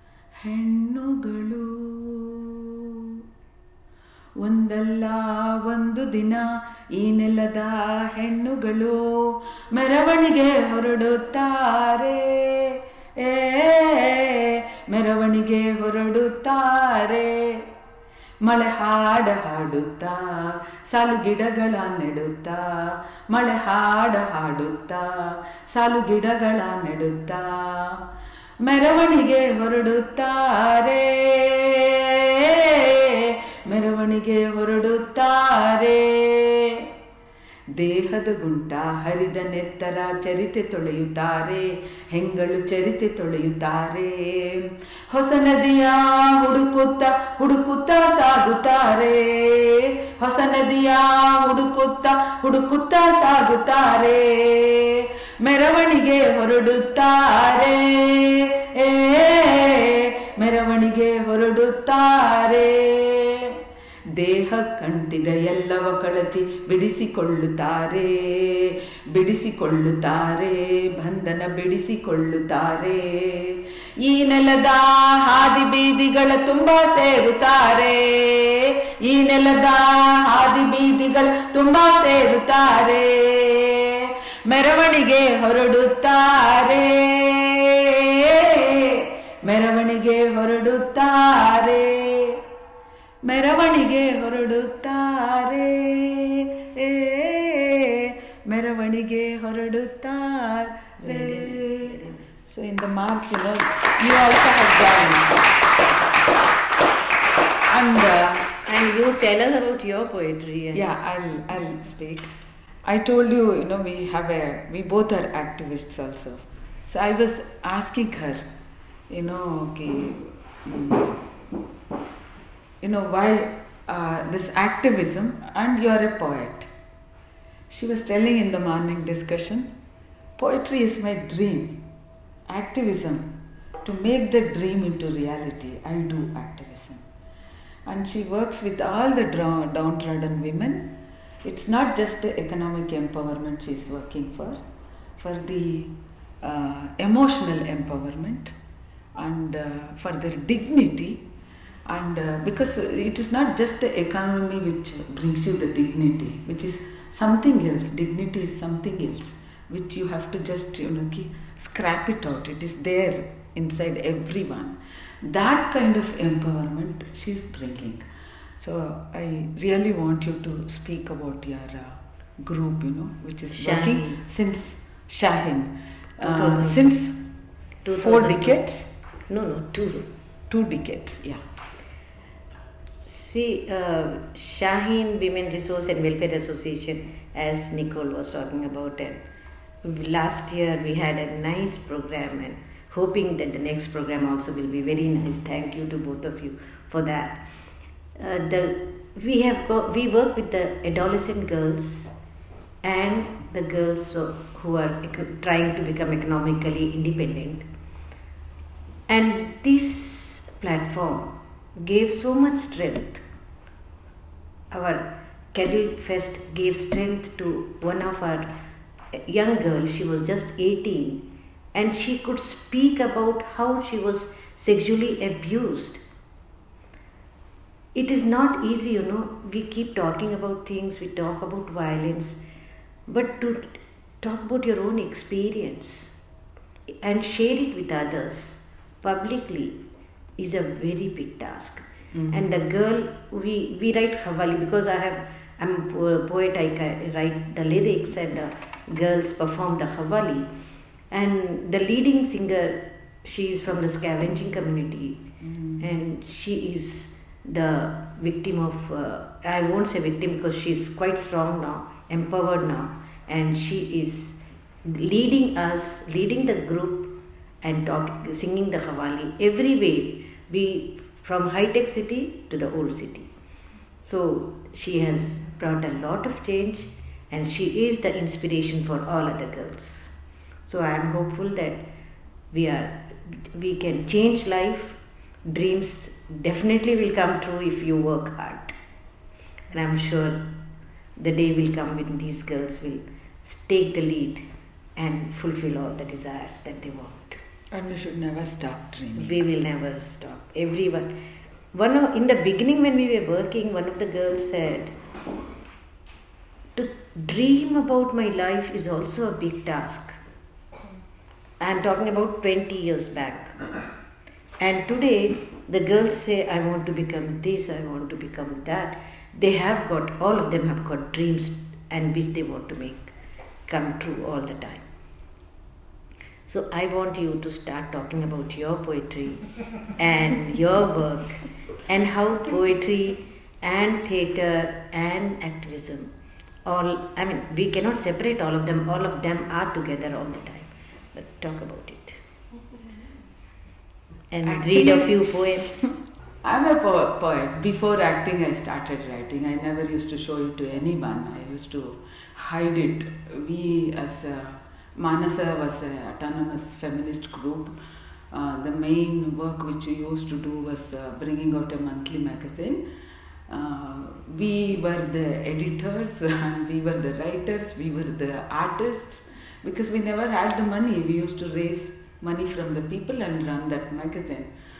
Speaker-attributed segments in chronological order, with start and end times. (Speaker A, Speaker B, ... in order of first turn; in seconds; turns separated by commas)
Speaker A: 0.3-3.2, Speaker A: 4.4-17.7, Speaker A: 18.4-28.0, Speaker A: 28.6-36.9, Speaker A: 37.7-63.6, Speaker A: 64.1-92.4, Speaker A: 93.2-105.5, Speaker B: 101.0-102.4, Speaker A: 107.7-108.5, Speaker B: 108.7-110.8, Speaker A: 110.7-112.3, Speaker A: 112.8-118.4, Speaker A: 119.1-121.2, Speaker A: 122.8-126.7, Speaker A: 127.7-129.7, Speaker A: 130.4-131.8, Speaker A: 132.5-137.0, Speaker A: 137.8-144.6, Speaker A: 145.2-148.5, Speaker A: 149.2-151.2, Speaker A: 151.9-168.0, Speaker A: 168.6-177.2, Speaker B: 173.5-174.2, Speaker B: 176.2-176.9, Speaker B: 177.8-178.6, Speaker A: 177.9-178.8, Speaker B: 179.3-180.1, Speaker A: 180.5-181.4, Speaker B: 183.1-189.2, Speaker B: 189.8-197.4, Speaker B: 198.2-202.1, Speaker B: 202.8-207.7, Speaker B: 209.1-213.2, Speaker B: 214.7-218.5, Speaker B: 219.1-226.0, Speaker B: 227.9-232.4, Speaker B: 233.1-236.1, Speaker B: 236.9-239.8, Speaker B: 240.4-250.5, Speaker A: 242.1-242.4, Speaker B: 251.1-255.2, Speaker A: 255.4-255.8, Speaker B: 255.8-273.3, Speaker B: 274.0-280.1, Speaker B: 280.6-281.9, Speaker B: 282.5-288.7, Speaker B: 289.7-290.5, Speaker B: 291.2-294.4, Speaker B: 295.0-297.4, Speaker A: 297.7-299.4, Speaker B: 299.1-301.1, Speaker B: 301.7-304.9, Speaker B: 306.7-310.2, Speaker B: 311.6-313.6, Speaker B: 314.6-323.1, Speaker B: 323.7-324.9, Speaker B: 326.5-336.1, Speaker B: 336.6-342.2, Speaker B: 344.3-345.9, Speaker A: 344.4-345.9, Speaker A: 346.4-357.7, Speaker A: 358.3-362.8, Speaker A: 363.5-374.5